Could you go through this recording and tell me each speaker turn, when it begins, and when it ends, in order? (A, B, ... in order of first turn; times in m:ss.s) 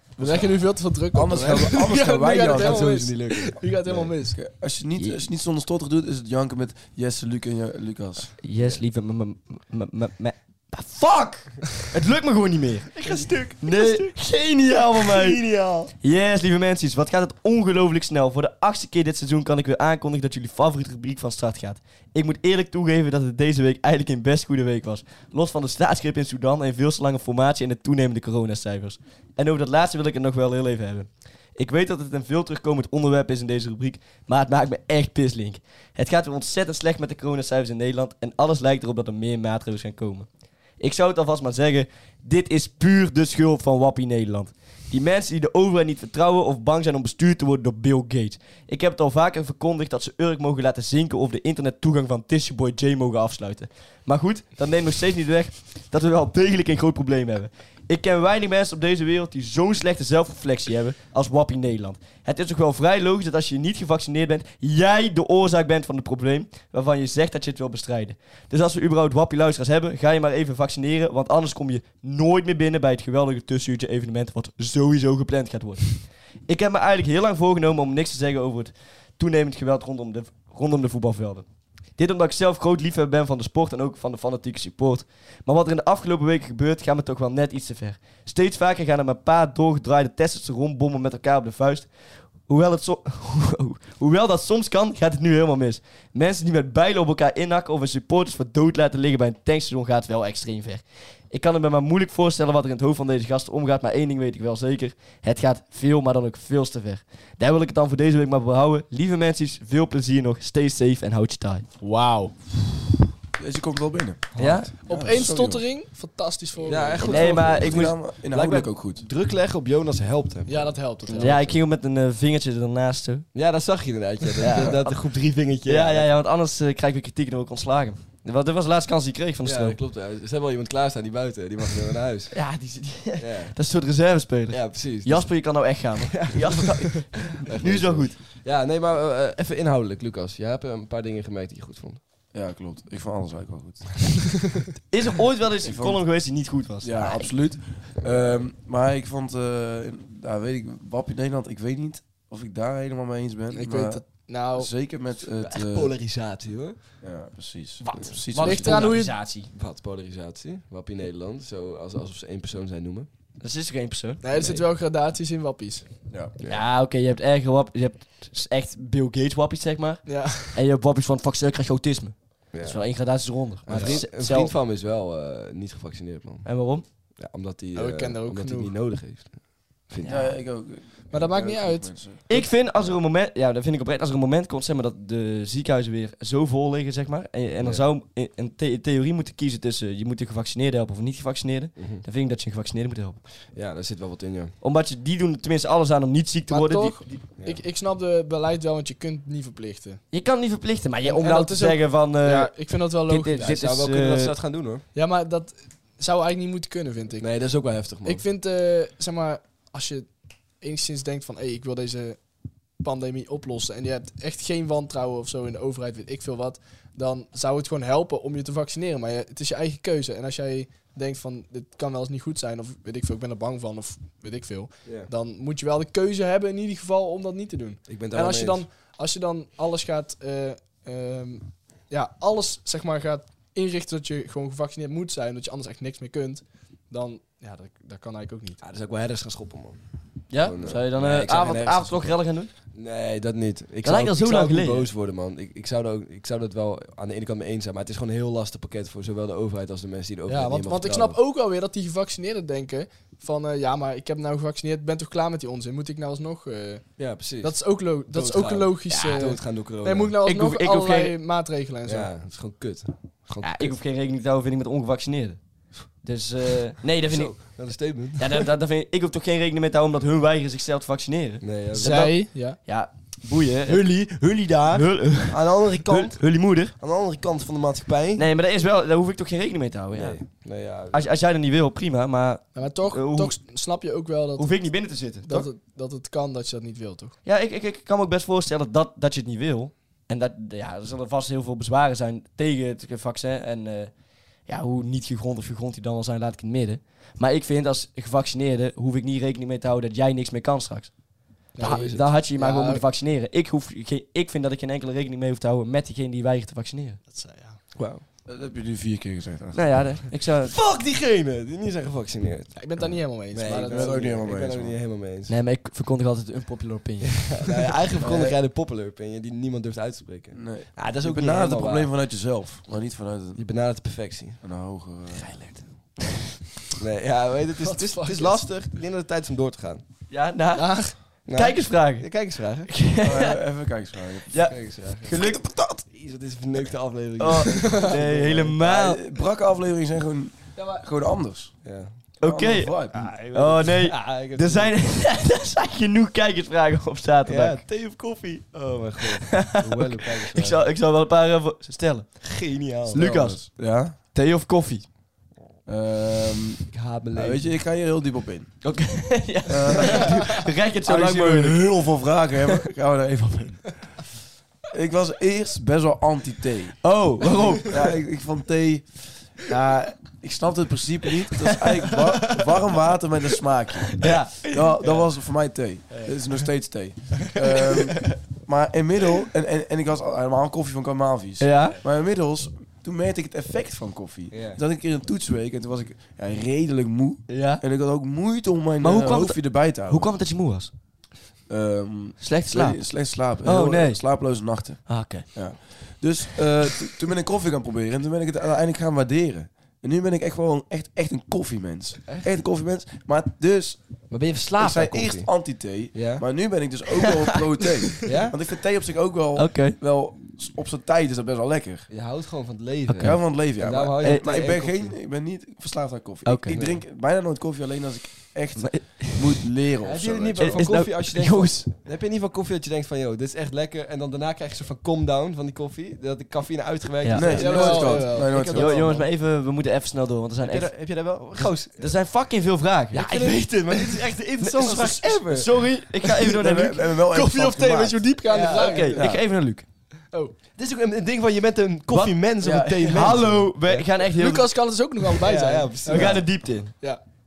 0:00.2-0:00.5 A
0:00.2-0:04.4 B
0:01.1-0:03.5 A
0:02.3-0:04.1 C
0:04.3-0:08.3 A
0:08.4-0:15.4 D
0:13.0-0:14.0 C
0:15.0-0:15.9 C
0:16.0-1:31.9 D
1:32.4-1:51.7 D
1:51.8-1:52.4 B
1:53.4-1:55.6 A
1:54.3-1:54.7 C
1:54.4-1:54.7 D
1:54.8-1:57.6 B
1:56.6-2:01.6 C
1:57.0-1:58.0 D
1:57.0-1:59.0 A
2:00.5-2:01.5 B
2:01.1-2:03.3 D
2:03.3-2:06.1 C
2:04.4-2:05.0 D
2:05.6-2:09.8 D
2:09.4-2:12.4 C
2:12.3-2:18.2 D
2:13.2-2:13.5 C
2:14.5-2:22.0 C
2:22.3-2:24.0 A
2:24.9-2:27.7 D
2:25.6-2:26.1 A
2:26.8-2:36.0 A
2:28.0-2:28.3 C
2:33.5-2:34.8 B
2:35.4-2:36.9 C
2:37.0-2:38.9 A
2:37.8-2:39.5 D
2:38.4-2:39.2 B
2:38.9-2:43.1 C
2:43.4-2:44.2 D
2:44.2-2:45.9 B
2:44.3-2:44.6 C
2:46.4-2:54.5 D
2:50.0-2:50.6 B
2:52.5-3:00.3 C
2:56.4-2:56.9 D
2:57.7-2:58.8 B
3:00.0-3:00.3 D
3:00.0-3:02.2 A
3:01.1-3:02.4 B
3:02.3-3:13.2 D
3:11.8-3:12.0 C
3:13.5-3:14.5 C
3:14.6-3:17.3 D
3:16.5-3:20.0 B
3:20.1-3:24.4 D
3:21.0-3:23.5 B
3:23.4-3:24.8 C
3:24.9-3:32.2 B
3:27.2-3:28.2 C
3:32.8-3:58.6 B
3:47.9-3:48.6 C
3:58.6-4:02.1 C
4:00.3-4:02.5 D
4:02.7-4:11.2 C
4:03.8-4:04.9 D
4:10.3-4:22.1 B
4:17.0-4:20.2 C
4:18.9-4:19.2 D
4:20.2-4:21.2 D
4:21.8-4:23.8 C
4:23.4-4:36.7 D
4:27.1-4:28.4 C
4:31.4-4:32.1 C
4:31.8-4:32.6 B
4:33.7-4:38.2 C
4:38.2-4:43.4 D
4:39.9-4:41.0 C
4:42.5-4:47.1 B
4:44.4-4:45.5 D
4:47.2-5:07.0 D
5:01.5-5:02.8 B
5:01.6-5:02.1 C
5:07.1-5:07.6 B
5:07.7-5:08.0 C
5:08.2-5:09.9 A
5:09.5-5:10.6 D
5:10.4-5:15.3 C
5:12.5-5:14.2 B
5:13.5-5:14.8 A
5:15.3-5:17.4 D
5:17.1-5:21.9 C
5:18.0-5:18.4 A
5:20.3-5:23.4 A
5:23.4-5:24.4 C
5:24.4-5:25.3 A
5:25.1-5:26.3 D
5:26.8-5:29.8 C
5:27.6-5:28.5 B
5:30.1-5:33.4 D
5:30.5-5:31.2 B
5:31.2-5:32.7 C
5:33.0-5:34.4 A
5:34.3-5:35.8 D
5:34.5-5:35.3 C
5:35.9-5:38.6 C
5:37.2-5:39.0 D
5:37.6-5:37.9 B
5:38.6-5:41.6 A
5:40.6-5:40.8 B
5:41.6-5:42.0 C
5:42.1-5:43.1 A
5:42.2-5:47.7 D
5:42.9-5:44.8 C
5:47.2-5:50.6 C
5:49.3-5:54.8 D
5:52.2-5:53.1 C
5:52.9-5:53.9 A
5:55.6-5:58.8 A
5:56.7-5:57.5 C
5:58.6-6:01.9 D
5:59.5-6:00.3 A
6:00.8-6:04.0 A
6:04.7-6:30.1 A
6:06.8-6:07.9 D
6:14.0-6:14.6 D
6:15.9-6:16.2 C
6:21.4-6:21.8 D
6:24.3-6:24.6 C
6:27.3-6:27.6 D
6:28.8-6:30.7 D
6:31.5-6:51.9 A
6:32.2-6:36.0 D
6:44.1-6:46.2 C
6:48.0-6:48.4 C
6:49.4-6:49.8 D
6:51.9-6:54.9 C
6:52.9-6:53.4 D
6:53.0-7:00.7 A
6:54.0-6:54.4 D
6:56.2-6:56.6 D
6:56.5-6:56.8 C
6:58.6-6:59.5 D
6:59.8-7:09.1 C
7:00.4-7:01.7 D
7:07.0-7:07.7 D
7:07.1-7:08.8 A
7:07.2-7:08.6 B
7:08.2-7:17.0 D
7:10.4-7:12.0 C
7:12.9-7:15.6 C
7:16.3-7:19.2 A
7:17.1-7:19.1 B
7:18.3-7:19.0 C
7:18.5-7:19.7 D
7:20.1-7:20.4 B
7:20.5-7:23.9 C
7:21.9-7:24.8 D
7:22.4-7:23.2 A
7:24.1-7:27.0 B
7:25.2-7:26.6 C
7:25.8-7:27.0 D